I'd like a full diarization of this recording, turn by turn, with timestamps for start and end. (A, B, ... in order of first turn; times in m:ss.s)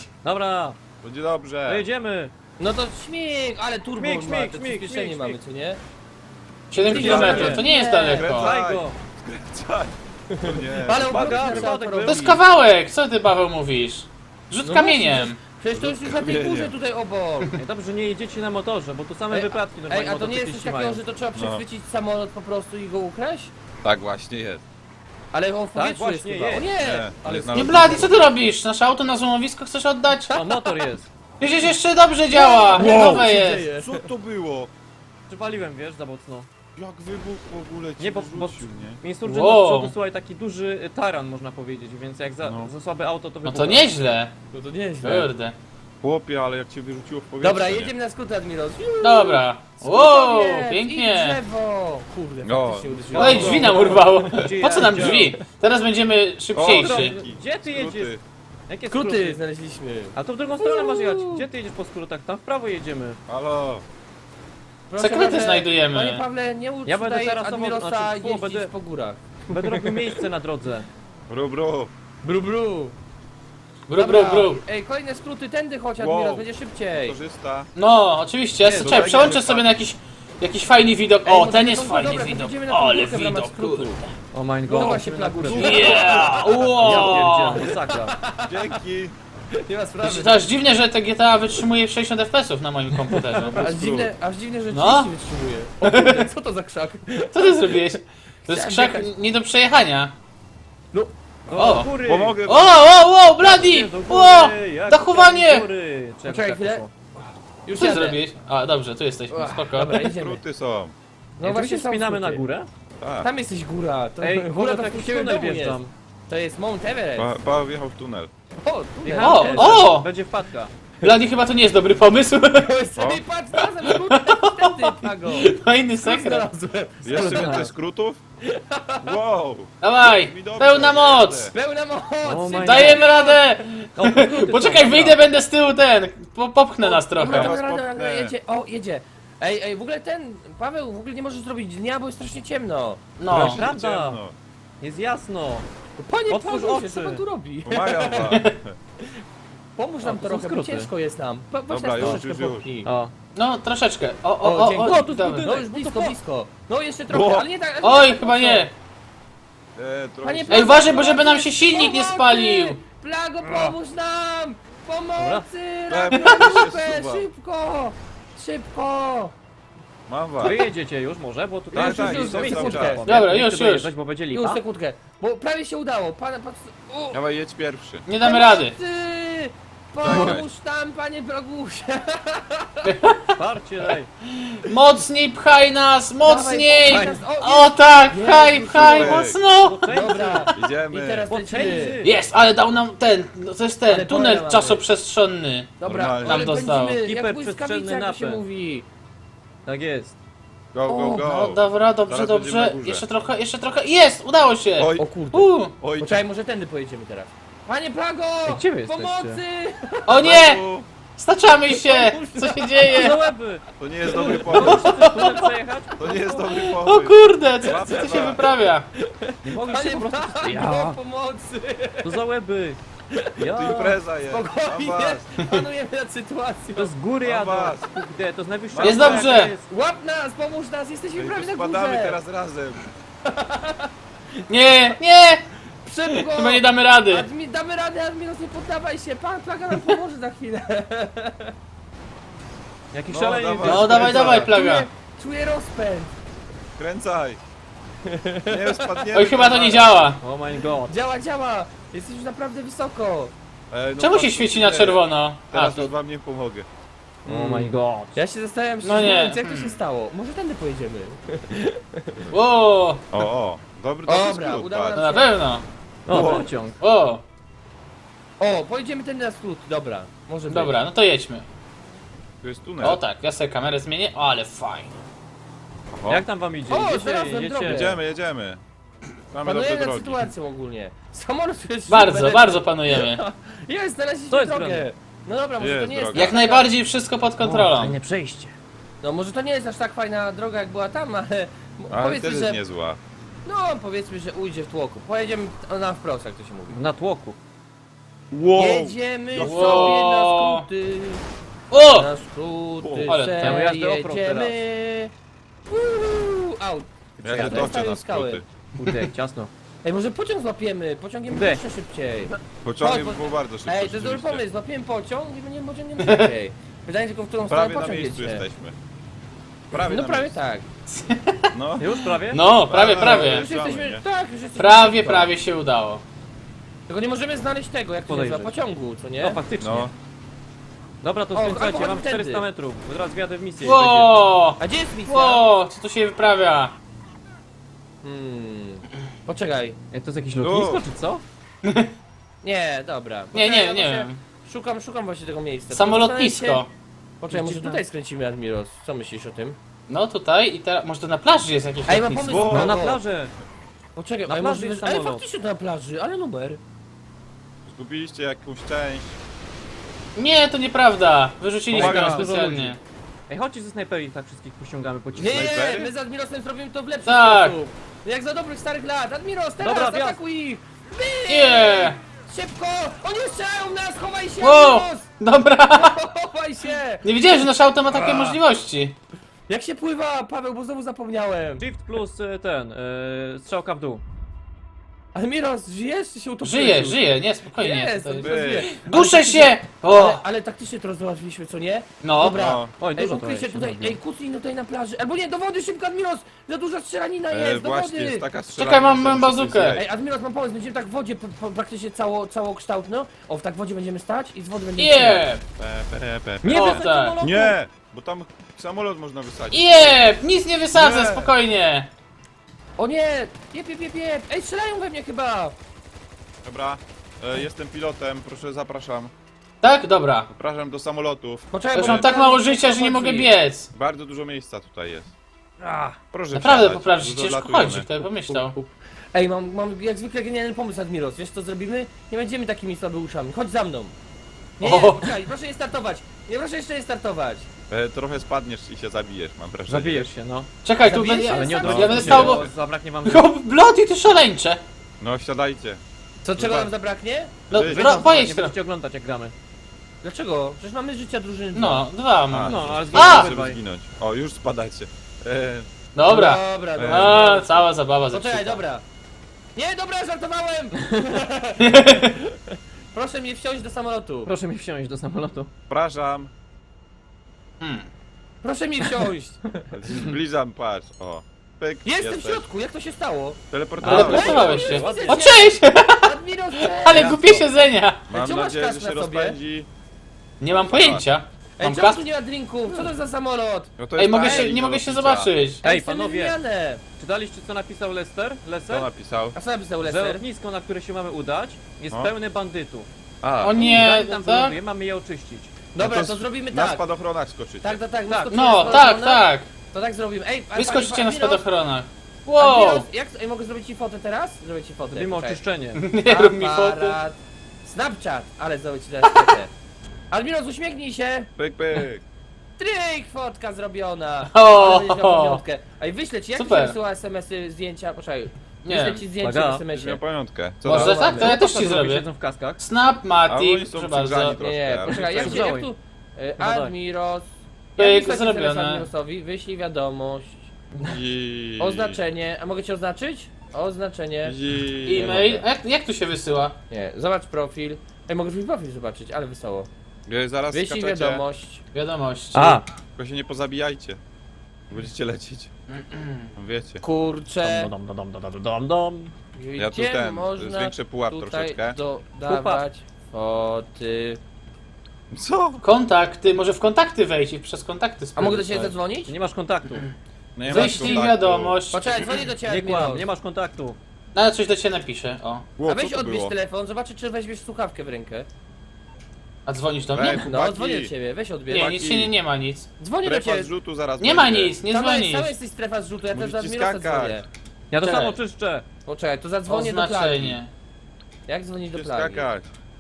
0:00.2-0:00.8 A
0:01.0-0:01.9 B
0:01.7-0:02.3 A
0:02.6-0:05.8 C
0:04.0-0:05.4 A
0:06.7-0:08.6 D
0:06.8-0:08.3 C
0:06.9-0:11.7 B
0:06.9-0:07.6 A
0:08.4-0:09.0 A
0:10.4-0:12.4 C
0:11.0-0:12.3 A
0:12.0-0:15.5 D
0:14.6-0:17.5 C
0:15.7-0:16.7 B
0:17.6-0:21.0 A
0:19.3-0:23.5 C
0:21.4-0:21.6 B
0:23.8-0:24.6 B
0:25.3-0:28.3 C
0:25.7-0:26.7 A
0:26.8-0:28.3 B
0:27.5-0:30.7 D
0:30.3-0:31.1 A
0:31.4-0:33.7 D
0:32.3-0:34.1 C
0:32.8-0:34.7 B
0:35.3-0:36.5 A
0:36.8-0:39.0 B
0:38.0-0:43.9 A
0:39.2-0:39.9 D
0:42.4-0:42.7 B
0:43.4-0:44.3 D
0:44.5-0:45.3 C
0:45.0-0:45.6 D
0:46.0-0:47.9 B
0:47.4-0:54.5 C
0:49.0-0:51.4 D
0:52.4-0:53.8 B
0:53.1-0:55.3 A
0:53.2-0:57.2 D
0:55.0-0:55.4 C
0:56.5-0:58.2 B
0:56.7-0:58.2 A
0:58.7-0:59.4 A
0:58.9-1:01.4 C
1:00.2-1:03.2 A
1:03.3-1:03.8 B
1:04.9-1:10.2 C
1:05.0-1:06.2 D
1:06.8-1:08.7 A
1:09.5-1:10.9 A
1:11.3-1:11.9 B
1:12.2-1:13.0 C
1:13.9-1:14.6 D
1:14.0-1:17.2 C
1:16.0-1:17.7 B
1:17.8-1:24.1 D
1:18.6-1:19.0 A
1:18.8-1:19.7 B
1:21.2-1:24.0 C
1:24.3-1:26.1 A
1:24.7-1:26.7 C
1:25.5-1:26.0 B
1:25.7-1:27.7 D
1:26.8-1:28.2 A
1:27.6-1:28.6 C
1:28.4-1:29.2 B
1:29.5-1:30.5 C
1:30.0-1:33.6 D
1:33.4-1:34.1 B
1:33.5-1:38.0 C
1:34.7-1:35.1 D
1:35.8-1:36.3 D
1:37.3-1:40.2 D
1:38.5-1:39.1 C
1:41.5-1:42.5 A
1:41.6-1:41.9 D
1:42.0-1:42.9 B
1:42.4-1:45.7 D
1:43.4-1:46.9 A
1:46.2-1:46.9 C
1:47.6-1:48.2 C
1:47.7-1:50.0 D
1:49.3-1:50.4 C
1:50.0-1:51.0 B
1:51.4-1:52.4 C
1:51.4-1:52.7 A
1:53.0-1:53.3 B
1:53.2-1:57.4 C
1:54.2-1:55.9 A
1:57.2-1:58.3 B
1:58.6-1:59.9 C
1:59.0-2:00.7 A
1:59.2-2:00.1 D
2:01.0-2:02.8 D
2:02.6-2:07.7 C
2:03.0-2:03.2 B
2:03.5-2:06.5 D
2:07.0-2:08.2 B
2:07.2-2:07.7 A
2:08.5-2:09.0 C
2:09.0-2:11.5 B
2:09.8-2:11.5 D
2:11.5-2:13.4 C
2:12.2-2:13.1 A
2:12.6-2:17.4 D
2:14.0-2:15.2 A
2:16.8-2:23.1 C
2:17.2-2:18.3 B
2:23.2-2:23.6 D
2:23.3-2:24.4 B
2:23.6-2:24.2 A
2:24.8-2:25.7 A
2:26.0-2:28.3 C
2:26.3-2:27.2 A
2:27.6-2:28.8 B
2:29.8-2:32.9 C
2:30.0-2:30.9 A
2:31.7-2:32.7 B
2:32.8-2:33.1 A
2:33.4-2:35.5 D
2:34.4-2:38.7 C
2:34.8-2:36.2 A
2:37.1-2:37.5 B
2:37.8-2:38.7 D
2:39.8-2:40.9 B
2:40.2-2:49.3 C
2:40.5-2:42.9 D
2:45.2-2:45.5 A
2:45.9-2:47.3 B
2:50.1-2:50.6 B
2:50.4-2:54.6 A
2:51.7-2:53.0 B
2:51.7-2:53.0 C
2:53.0-2:53.9 D
2:54.3-2:57.2 C
2:57.1-2:58.1 B
2:58.1-2:58.8 D
2:58.2-3:02.9 C
3:00.0-3:00.5 B
3:02.8-3:03.4 D
3:03.4-3:04.1 A
3:04.3-3:09.8 D
3:06.2-3:09.3 C
3:06.9-3:07.2 A
3:08.6-3:09.4 B
3:09.6-3:10.4 A
3:09.9-3:12.0 C
3:10.5-3:11.4 B
3:11.3-3:12.1 A
3:12.0-3:17.0 D
3:13.9-3:14.8 C
3:15.8-3:18.9 C
3:15.8-3:16.5 B
3:17.0-3:18.4 A
3:19.7-3:20.2 A
3:20.7-3:23.0 B
3:20.9-3:25.9 D
3:24.8-3:25.0 B
3:25.0-3:30.2 C
3:25.8-3:26.2 B
3:28.5-3:29.4 A
3:30.1-3:30.6 D
3:30.2-3:30.9 B
3:31.2-3:33.3 D
3:31.7-3:33.1 C
3:32.9-3:36.6 A
3:33.8-3:34.9 B
3:34.1-3:34.8 C
3:34.8-3:35.3 D
3:36.0-3:38.5 B
3:36.6-3:38.9 D
3:37.8-3:38.4 C
3:39.0-3:42.2 C
3:39.4-3:41.0 A
3:42.0-3:42.8 A
3:43.1-3:43.5 C
3:43.4-3:44.0 A
3:43.5-3:45.4 B
3:44.3-3:46.9 C
3:46.8-3:49.6 A
3:47.2-3:47.9 B
3:48.7-3:49.3 B
3:48.8-3:49.5 D
3:48.9-3:52.2 C
3:51.2-3:52.8 B
3:53.3-3:53.9 C
3:54.5-3:55.4 D
3:55.8-4:01.5 C
3:56.1-3:57.3 D
4:02.9-4:03.9 A
4:03.1-4:04.5 B
4:03.6-4:04.9 D
4:03.9-4:06.2 C
4:06.8-4:07.4 B
4:08.0-4:09.1 C
4:08.5-4:10.0 B
4:09.1-4:10.2 D
4:10.2-4:11.0 A
4:10.9-4:13.3 C
4:13.7-4:16.7 B
4:14.0-4:15.9 D
4:17.2-4:22.3 C
4:17.3-4:18.2 A
4:18.8-4:19.8 D
4:22.3-4:23.0 D
4:23.1-4:25.0 B
4:24.1-4:25.4 C
4:25.0-4:25.6 D
4:26.1-4:26.8 A
4:26.1-4:26.5 B
4:26.1-4:26.5 C
4:26.8-4:27.2 D
4:28.4-4:30.8 C
4:30.5-4:31.5 D
4:32.4-4:33.0 B
4:32.8-4:34.9 D
4:35.9-4:36.2 B
4:36.1-4:37.8 A
4:36.7-4:38.0 C
4:37.6-4:38.6 B
4:39.3-4:40.3 B
4:39.4-4:46.7 C
4:41.9-4:43.2 D
4:44.3-4:44.9 A
4:45.6-4:46.4 B
4:46.1-4:48.0 D
4:47.5-4:48.2 A
4:48.1-4:52.6 C
4:51.9-4:53.0 B
4:53.4-4:56.8 C
4:56.7-4:57.4 A
4:58.3-5:00.0 B
4:58.6-5:01.2 C
4:59.4-5:00.7 D
5:01.7-5:02.1 D
5:01.9-5:05.1 C
5:02.8-5:03.1 B
5:03.0-5:03.5 D
5:03.4-5:04.6 A
5:05.7-5:08.4 C
5:07.2-5:07.7 A
5:07.2-5:08.4 B
5:08.7-5:09.5 A
5:08.8-5:09.1 D
5:09.8-5:18.4 C
5:11.3-5:11.6 A
5:12.6-5:14.4 B
5:16.0-5:16.3 D
5:17.5-5:18.8 B
5:19.7-5:20.4 B
5:19.7-5:20.7 C
5:20.9-5:23.5 D
5:21.5-5:21.9 B
5:21.8-5:22.4 A
5:22.7-5:24.0 B
5:22.9-5:25.3 C
5:24.6-5:26.0 D
5:26.9-5:29.4 C
5:28.1-5:28.6 A
5:29.2-5:29.9 A
5:29.6-5:29.9 B
5:31.0-5:34.2 A
5:31.3-5:32.4 C
5:33.6-5:36.8 D
5:34.6-5:35.4 C
5:38.0-5:39.8 C
5:39.9-5:41.2 A
5:40.4-5:40.8 B
5:41.6-5:41.9 D
5:42.4-5:46.6 C
5:43.3-5:44.3 D
5:45.7-5:46.7 D
5:47.2-5:49.6 C
5:47.3-5:47.8 A
5:49.9-5:52.5 D
5:51.9-5:53.0 C
5:52.2-5:52.8 B
5:52.6-5:53.3 A
5:54.0-5:56.6 C
5:54.3-5:55.2 A
5:57.7-5:59.2 B
6:00.2-6:02.8 D
6:01.7-6:02.8 A
6:01.7-6:02.3 B
6:03.3-6:05.4 A
6:05.2-6:15.1 C
6:05.2-6:05.9 B
6:07.0-6:07.6 D
6:09.6-6:10.2 A
6:11.3-6:12.0 D
6:14.4-6:16.0 D
6:15.8-6:17.2 C
6:17.0-6:19.0 D
6:17.9-6:18.4 C
6:19.5-6:21.6 C
6:21.6-6:24.0 A
6:25.2-6:38.3 C
6:26.4-6:30.2 D
6:28.2-6:28.8 B
6:32.0-6:32.4 D
6:32.2-6:32.8 B
6:32.8-6:34.0 A
6:37.3-6:39.8 B
6:38.5-6:39.8 D
6:39.8-6:45.3 C
6:44.8-6:45.4 D
6:45.6-6:50.0 B
6:46.4-6:47.6 A
6:46.5-6:47.2 D
6:49.5-6:51.9 D
6:50.7-6:51.4 B
6:52.8-6:55.6 C
6:56.4-6:59.1 B
6:59.6-7:00.3 D
7:00.3-7:02.1 B
7:01.5-7:03.3 C
7:01.7-7:03.7 D
7:03.7-7:05.1 B
7:05.6-7:06.0 C
7:06.1-7:07.9 B
7:06.3-7:08.6 D
7:08.3-7:13.9 C
7:14.6-7:17.5 C
7:14.6-7:15.2 D
7:17.7-7:20.1 B
7:19.7-7:20.6 A
7:20.6-7:22.4 D
7:20.8-7:22.2 C
7:21.3-7:23.3 A
7:21.5-7:22.5 B
7:23.0-7:24.6 D
7:25.0-7:25.8 B
7:26.2-7:27.5 C
7:26.4-7:26.7 B
7:27.5-7:27.8 B
7:27.5-7:28.6 D
7:27.7-7:29.3 A
7:30.0-7:31.9 C
7:31.5-7:33.3 D
7:32.3-7:35.7 B
7:32.4-7:33.6 A
7:36.0-7:38.6 D
7:36.1-7:38.8 C
7:36.8-7:37.2 B
7:39.6-7:42.4 C
7:41.6-7:42.2 D
7:42.9-7:44.3 C
7:44.2-7:45.5 A
7:45.7-7:46.3 B
7:47.6-7:47.9 D
7:48.4-7:49.7 C
7:49.7-7:52.4 B
7:51.8-7:53.4 C
7:53.5-7:54.8 B
7:53.8-7:55.3 A
7:53.9-7:58.1 D
7:54.0-7:57.2 C
7:56.9-7:57.5 A
7:58.1-7:59.7 B
7:58.1-7:59.4 C
8:00.4-8:02.0 D
8:00.5-8:01.1 B
8:01.6-8:04.5 C
8:03.8-8:05.3 B
8:03.9-8:05.7 D
8:05.6-8:06.8 C
8:05.7-8:06.4 A
8:07.0-8:08.9 A
8:08.7-8:09.4 B
8:09.4-8:10.2 C
8:09.8-8:12.9 A
8:13.2-8:13.7 B
8:13.4-8:14.6 D
8:13.6-8:15.6 A
8:15.7-8:16.8 C
8:15.8-8:17.8 B
8:17.6-8:21.4 C
8:18.3-8:19.6 D
8:20.5-8:22.9 D
8:22.4-8:25.4 C
8:24.9-8:25.8 A
8:25.8-8:27.0 D
8:26.0-8:29.5 C
8:29.0-8:29.3 D
8:30.1-8:31.3 C
8:31.4-8:32.0 B
8:32.6-8:40.0 C
8:34.3-8:35.4 D
8:36.4-8:36.8 D
8:38.6-8:39.1 D
8:39.2-8:39.6 A
8:39.7-8:41.0 B
8:40.6-8:41.4 C
8:40.6-8:44.4 D
8:41.2-8:42.6 A
8:43.3-8:45.5 B
8:44.4-8:50.5 C
8:45.2-8:45.7 A
8:46.4-8:46.7 A
8:47.8-8:48.9 D
8:50.8-8:52.0 B
8:51.6-8:54.4 C
8:54.2-8:55.4 B
8:54.8-8:56.6 D
8:55.0-8:55.3 C
8:56.7-8:59.7 C
9:00.1-9:01.2 B
9:00.5-9:01.6 C
9:01.7-9:02.6 D
9:02.3-9:02.6 A
9:03.0-9:04.0 B
9:04.7-9:05.5 B
9:05.7-9:06.3 D
9:06.4-9:06.8 B
9:06.8-9:07.7 C
9:07.4-9:09.2 A
9:09.3-9:14.2 C
9:09.6-9:11.8 B
9:12.3-9:12.6 A
9:15.1-9:15.6 B
9:15.6-9:18.7 D
9:18.2-9:19.1 C
9:19.1-9:19.9 A
9:20.4-9:21.6 B
9:20.4-9:22.4 D
9:20.5-9:21.0 C
9:21.7-9:23.1 C
9:22.4-9:23.8 A
9:24.1-9:25.5 D
9:25.6-9:26.3 B
9:25.6-9:28.3 C
9:29.5-9:30.3 D
9:29.9-9:30.9 B
9:30.2-9:31.7 C
9:31.5-9:32.7 D
9:31.5-9:32.1 B
9:32.8-9:33.5 C
9:33.0-9:34.6 B
9:34.0-9:35.3 D
9:34.6-9:37.3 C
9:36.1-9:37.2 B
9:37.7-9:38.7 A
9:37.8-9:38.2 D
9:38.9-9:40.4 C
9:39.5-9:40.5 D
9:41.3-9:42.3 C
9:41.7-9:42.5 B